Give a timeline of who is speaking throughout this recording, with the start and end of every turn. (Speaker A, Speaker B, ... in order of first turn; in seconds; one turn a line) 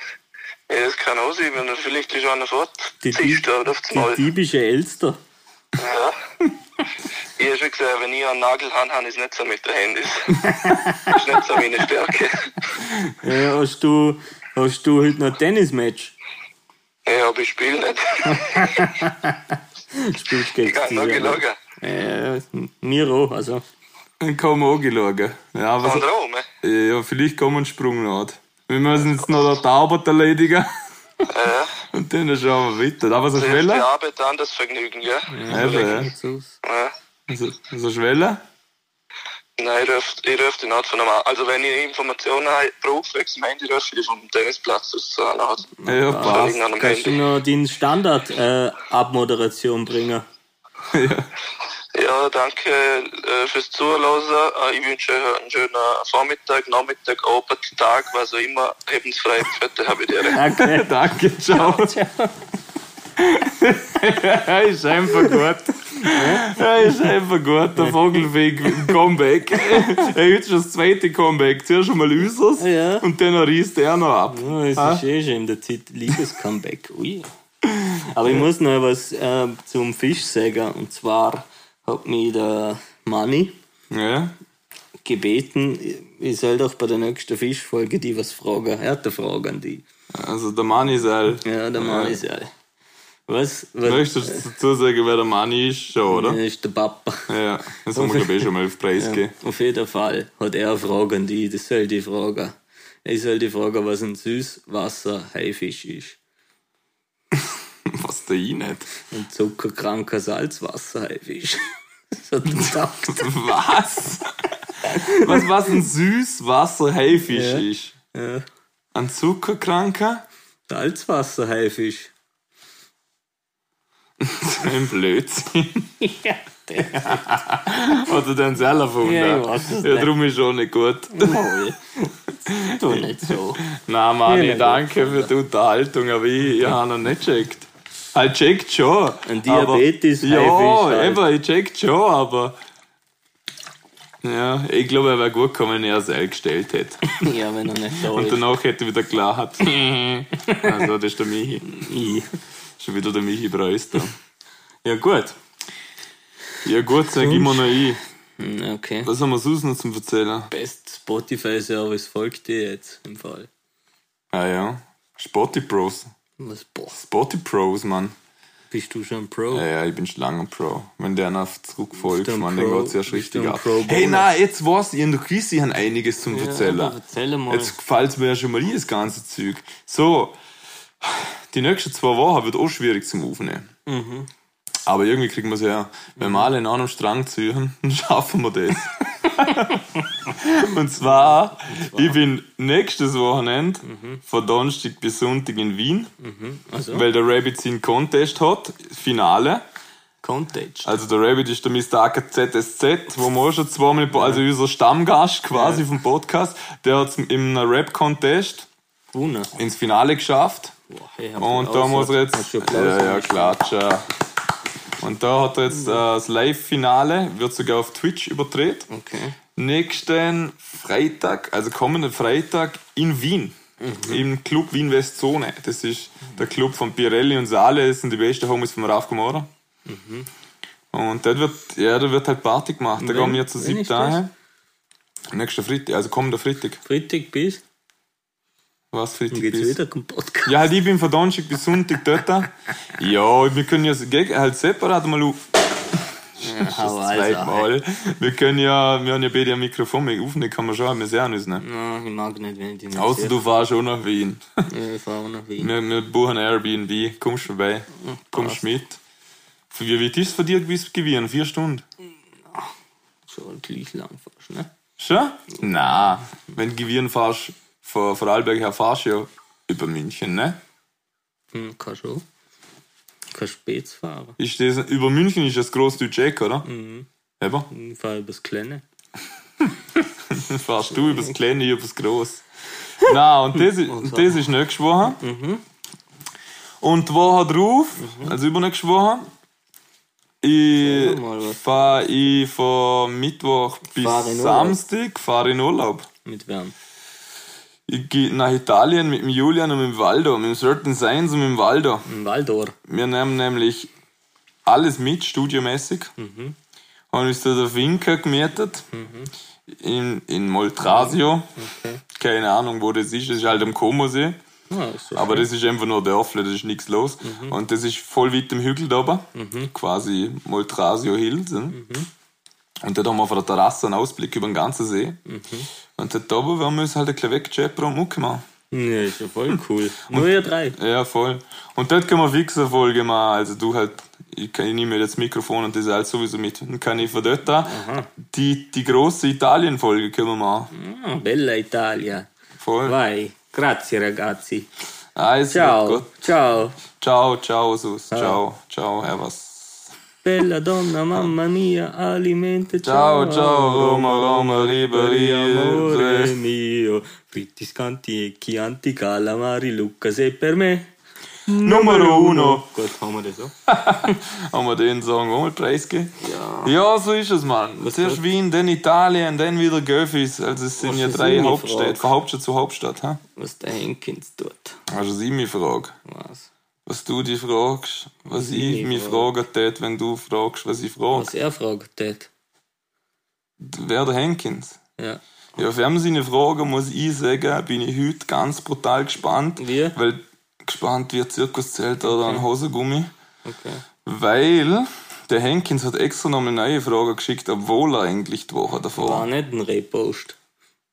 Speaker A: 0.7-4.2
Speaker B: 3.0-5.2
Speaker A: 5.8-6.1
Speaker A: 7.4-10.4
Speaker B: 10.6-11.1
Speaker A: 11.1-12.5
Speaker B: 13.2-16.1
Speaker A: 17.1-18.8
Speaker B: 18.4-23.6
Speaker A: 20.6-21.6
Speaker C: 24.2-26.1
Speaker A: 25.8-26.4
Speaker C: 26.6-30.7
Speaker A: 31.3-31.7
Speaker C: 31.9-33.9
Speaker A: 33.3-36.0
Speaker B: 35.3-36.6
Speaker C: 35.5-36.1
Speaker A: 36.6-36.9
Speaker C: 37.3-38.4
Speaker A: 39.6-47.2
Speaker B: 45.8-50.2
Speaker C: 45.9-46.6
Speaker C: 50.9-51.3
Speaker A: 51.9-60.4
Speaker B: 60.3-60.9
Speaker C: 60.5-62.0
Speaker B: 61.5-62.3
Speaker C: 63.2-75.0
Speaker B: 66.0-66.5
Speaker B: 67.8-68.9
Speaker B: 72.6-73.1
Speaker B: 74.3-77.3
Speaker C: 77.7-78.3
Speaker B: 78.1-83.6
Speaker C: 83.9-84.3
Speaker B: 85.0-89.8
Speaker C: 90.1-92.2
Speaker B: 91.4-92.5
Speaker B: 93.3-94.4
Speaker C: 93.8-96.4
Speaker B: 96.1-97.3
Speaker C: 97.3-99.3
Speaker B: 97.9-106.2
Speaker C: 107.8-108.9
Speaker B: 109.1-113.3
Speaker C: 112.5-114.3
Speaker B: 114.8-115.4
Speaker C: 114.8-117.9
Speaker B: 117.3-118.4
Speaker C: 118.9-120.2
Speaker B: 120.7-122.1
Speaker C: 124.2-125.9
Speaker B: 126.0-127.3
Speaker C: 127.0-131.5
Speaker B: 129.0-130.1
Speaker B: 131.1-133.6
Speaker C: 132.5-142.6
Speaker B: 134.2-135.3
Speaker B: 139.2-141.2
Speaker C: 144.2-147.2
Speaker B: 147.2-148.4
Speaker C: 148.1-151.8
Speaker B: 151.7-152.3
Speaker C: 152.8-154.2
Speaker B: 154.8-155.3
Speaker C: 156.6-158.0
Speaker B: 157.1-157.8
Speaker B: 158.4-159.1
Speaker C: 159.0-160.5
Speaker B: 160.5-163.5
Speaker C: 164.3-166.1
Speaker B: 166.4-167.0
Speaker C: 166.9-168.1
Speaker B: 168.7-169.7
Speaker C: 169.5-177.0
Speaker B: 172.0-174.3
Speaker B: 176.3-177.8
Speaker C: 177.5-180.4
Speaker C: 181.0-183.7
Speaker B: 183.8-184.3
Speaker C: 184.8-196.1
Speaker B: 186.2-186.5
Speaker B: 191.0-192.2
Speaker B: 193.8-194.2
Speaker B: 196.2-197.1
Speaker C: 196.9-199.6
Speaker B: 200.2-200.9
Speaker C: 200.8-208.7
Speaker B: 204.1-204.4
Speaker B: 205.5-205.8
Speaker B: 209.1-209.5
Speaker C: 209.5-210.7
Speaker B: 210.9-213.6
Speaker C: 211.4-214.1
Speaker C: 215.0-218.9
Speaker B: 215.7-216.0
Speaker B: 218.9-219.3
Speaker C: 219.6-229.5
Speaker B: 223.8-224.3
Speaker B: 229.8-230.3
Speaker C: 230.9-234.3
Speaker B: 233.0-234.2
Speaker C: 235.3-236.8
Speaker B: 236.8-237.6
Speaker C: 238.9-239.8
Speaker B: 239.3-240.6
Speaker C: 240.4-245.4
Speaker C: 246.4-251.6
Speaker B: 246.4-247.7
Speaker B: 251.6-253.4
Speaker C: 252.9-254.6
Speaker B: 254.7-255.7
Speaker C: 255.6-259.0
Speaker B: 258.0-258.8
Speaker C: 259.7-261.8
Speaker B: 263.3-264.7
Speaker C: 265.0-270.6
Speaker B: 271.5-272.2
Speaker B: 273.3-274.4
Speaker C: 274.4-276.7
Speaker B: 276.6-277.1
Speaker C: 277.4-277.7
Speaker B: 277.7-278.8
Speaker C: 280.3-282.4
Speaker B: 280.9-281.3
Speaker C: 283.0-285.2
Speaker B: 283.6-284.4
Speaker B: 285.2-285.6
Speaker C: 286.8-289.3
Speaker B: 288.0-288.4
Speaker C: 290.4-296.1
Speaker B: 290.8-291.8
Speaker B: 294.0-294.8
Speaker B: 296.2-296.7
Speaker C: 297.9-302.1
Speaker B: 302.1-302.7
Speaker C: 302.9-303.9
Speaker C: 304.6-306.1
Speaker B: 306.2-306.6
Speaker C: 307.1-308.9
Speaker B: 308.9-309.3
Speaker C: 309.7-311.5
Speaker B: 310.8-312.0
Speaker C: 312.1-314.4
Speaker B: 314.7-315.5
Speaker C: 315.1-321.8
Speaker B: 317.2-317.6
Speaker B: 319.3-319.7
Speaker B: 321.7-322.1
Speaker C: 322.8-325.2
Speaker B: 325.2-325.7
Speaker C: 326.0-328.4
Speaker B: 328.7-330.8
Speaker C: 330.1-340.7
Speaker B: 337.6-338.1
Speaker B: 340.7-342.3
Speaker C: 342.6-343.0
Speaker B: 342.8-344.7
Speaker C: 345.1-346.1
Speaker B: 345.5-346.8
Speaker C: 346.9-349.9
Speaker B: 348.1-348.4
Speaker B: 350.2-360.9
Speaker C: 352.8-356.4
Speaker B: 361.5-363.5
Speaker C: 361.6-362.6
Speaker C: 363.7-373.2
Speaker B: 366.2-366.7
Speaker B: 367.8-368.2
Speaker B: 370.8-372.1
Speaker B: 373.4-374.8
Speaker C: 374.9-375.9
Speaker B: 376.1-376.5
Speaker C: 376.9-381.3
Speaker B: 378.3-379.3
Speaker B: 381.1-382.3
Speaker C: 383.6-384.8
Speaker C: 385.6-393.1
Speaker B: 389.6-389.9
Speaker B: 392.0-392.4
Speaker B: 393.4-393.8
Speaker C: 394.0-399.3
Speaker B: 398.9-400.4